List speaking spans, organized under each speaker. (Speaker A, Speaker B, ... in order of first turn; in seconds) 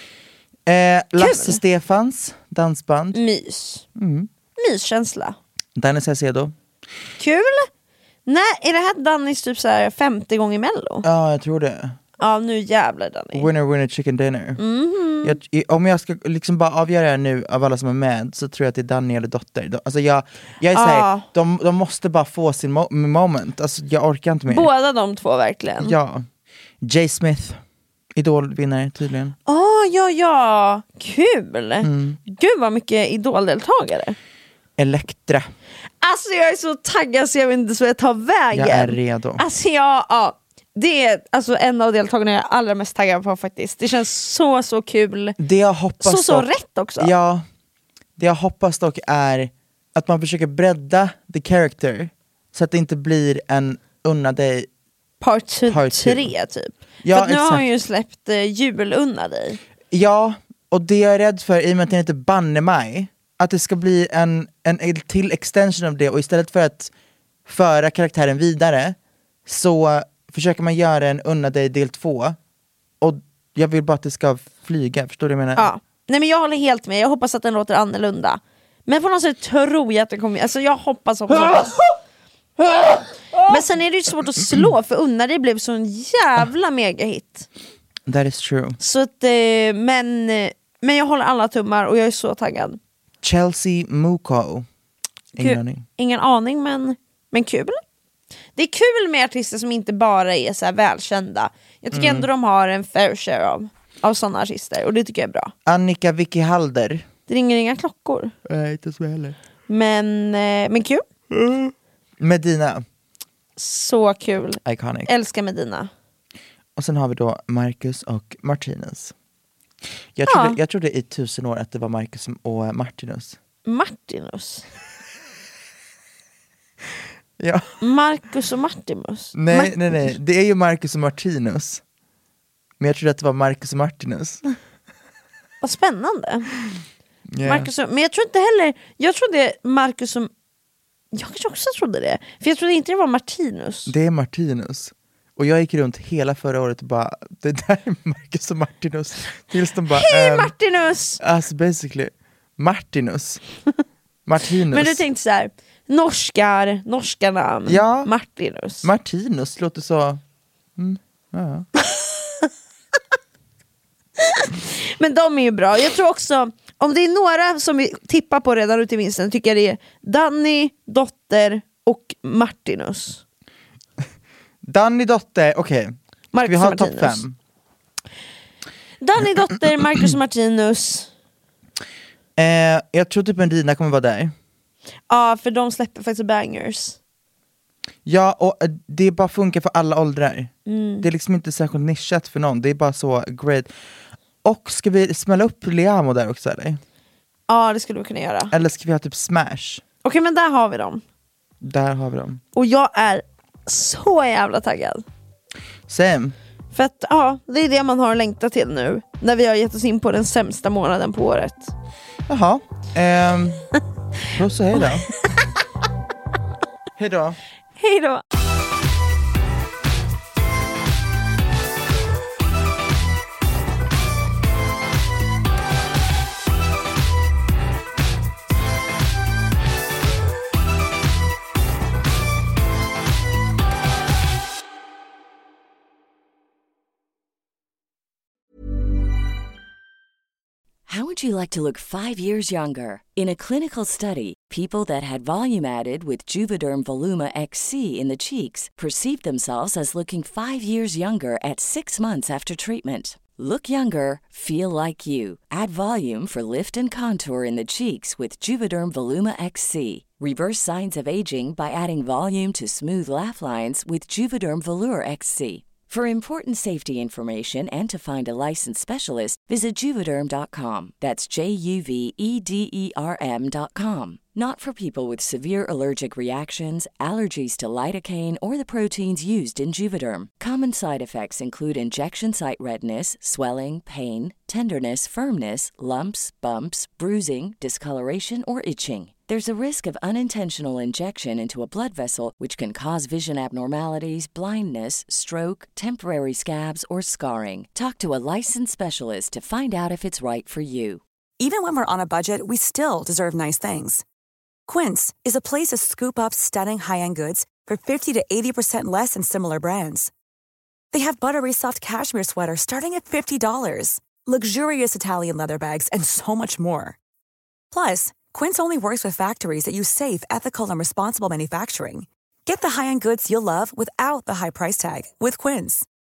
Speaker A: 0.7-3.2, 4.0-4.3, 5.8-6.5, 11.0-12.0, 13.3-14.6, 15.2-24.7, 25.8-26.2, 26.8-27.6, 28.1-29.4, 31.8-32.2, 34.8-35.5, 38.5-39.4, 45.4-47.4, 48.2-54.7, 55.7-56.3, 57.0-57.7, 59.9-66.9, 67.5-72.4, 73.0-75.7, 81.3-81.8, 82.7-83.7, 88.0-88.8, 93.2-94.7, 95.3-95.8, 101.9-102.3, 105.7-107.1, 108.5-109.4, 111.3-112.8, 114.6-115.1, 116.8-119.1, 120.2-123.4, 127.4-127.7, 129.3-131.8, 132.8-134.4, 137.3-137.7, 143.8-150.5, 151.2-153.4, 154.2-155.0, 157.7-158.1, 158.8-160.2, 160.8-161.7, 174.6-177.3, 182.4-184.3, 188.1-193.7, 194.4-196.8, 198.5-199.8, 201.6-202.4, 205.9-206.3, 212.3-213.7, 214.3-215.1, 217.0-217.4
Speaker B: 1.2-1.6, 3.1-3.8, 4.6-5.4, 7.2-7.7, 8.2-11.1, 12.2-13.5, 14.6-15.4, 20.7-21.2, 24.5-25.9, 29.5-34.1, 36.0-45.4, 46.0-47.1, 55.2-59.6, 75.5-81.8, 83.5-87.5, 88.8-92.8, 95.4-97.8, 98.5-105.5, 107.3-108.3, 109.7-111.0, 113.6-115.9, 120.2-120.6, 123.7-124.6, 127.8-130.1, 135.6-136.5, 137.4-140.3, 141.1-143.9, 149.9-151.2, 154.7-158.9, 164.2-173.2, 176.3-177.2, 179.0-181.1, 185.1-187.0, 190.7-191.0, 197.5-198.5, 200.0-201.0, 202.5-205.0, 206.7-211.7, 217.8-218.2
Speaker C: 240.9-301.0
Speaker D: 301.4-304.0, 304.7-310.1, 310.9-317.0, 317.7-325.9